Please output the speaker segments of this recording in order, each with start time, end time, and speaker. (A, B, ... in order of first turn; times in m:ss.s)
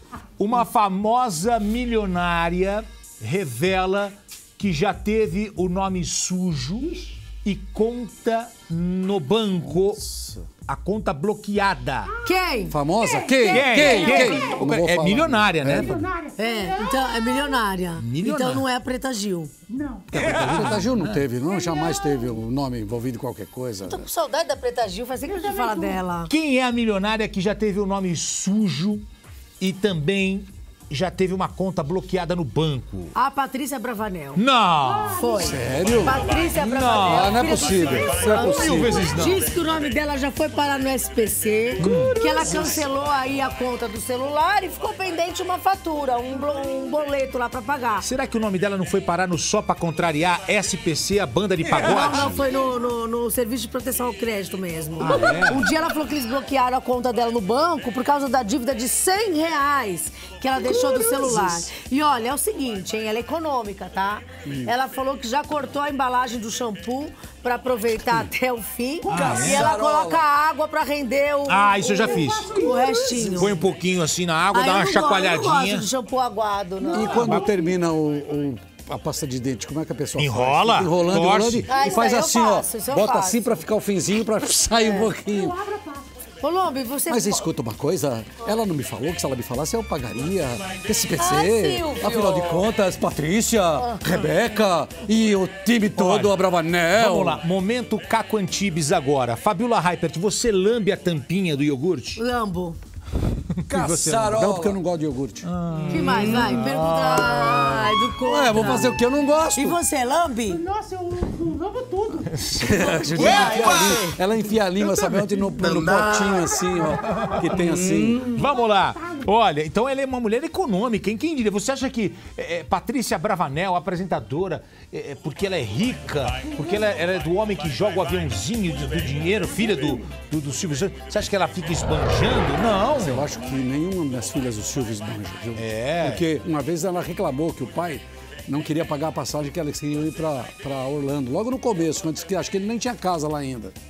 0:00.4-0:10.0 A
0:09.6-0:10.5 B
0:10.6-0:12.2 A
0:12.2-0:12.7 C
0:12.7-0:16.1 B
0:13.4-0:16.1 A
0:13.8-0:14.3 C
0:16.2-0:17.0 D
0:16.4-0:19.5 C
0:18.0-0:18.6 A
0:19.8-0:20.0 D
0:20.1-0:24.1 B
0:20.1-0:21.2 A
0:23.8-0:26.3 C
0:25.5-0:26.0 D
0:26.3-0:29.0 A
0:29.6-0:33.2 A
0:33.2-0:34.4 C
0:34.4-0:35.2 A
0:35.1-0:48.1 C
0:35.3-0:36.3 B
0:36.6-0:37.4 A
0:37.0-0:39.0 B
0:38.4-0:39.4 A
0:41.8-0:42.2 A
0:41.8-0:42.7 B
0:48.0-0:52.4 A
0:51.8-1:13.6 C
0:55.0-0:55.6 A
1:01.4-1:01.7 B
1:09.1-1:10.3 B
1:09.1-1:09.7 A
1:11.5-1:12.6 A
1:12.3-1:12.7 D
1:13.1-1:13.5 B
1:13.3-1:15.9 A
1:14.5-1:17.3 C
1:16.8-1:25.6 B
1:17.0-1:17.6 A
1:20.2-1:21.7 A
1:21.7-1:23.7 C
1:24.8-1:25.1 C
1:26.4-1:27.5 C
1:27.1-1:37.4 B
1:31.2-1:32.6 C
1:33.8-1:34.2 C
1:36.0-1:36.4 A
1:37.0-1:42.2 A
1:42.2-1:42.8 C
1:43.7-1:44.8 A
1:43.7-1:45.5 B
1:45.4-1:47.9 A
1:45.9-1:49.0 C
1:46.0-1:49.8 B
1:49.6-1:50.6 C
1:50.7-1:52.3 D
1:52.2-1:54.1 A
1:52.6-1:58.3 B
1:53.2-1:54.2 C
1:55.7-1:56.4 C
1:57.0-2:13.3 A
2:13.0-2:23.8 B
2:15.6-2:16.2 A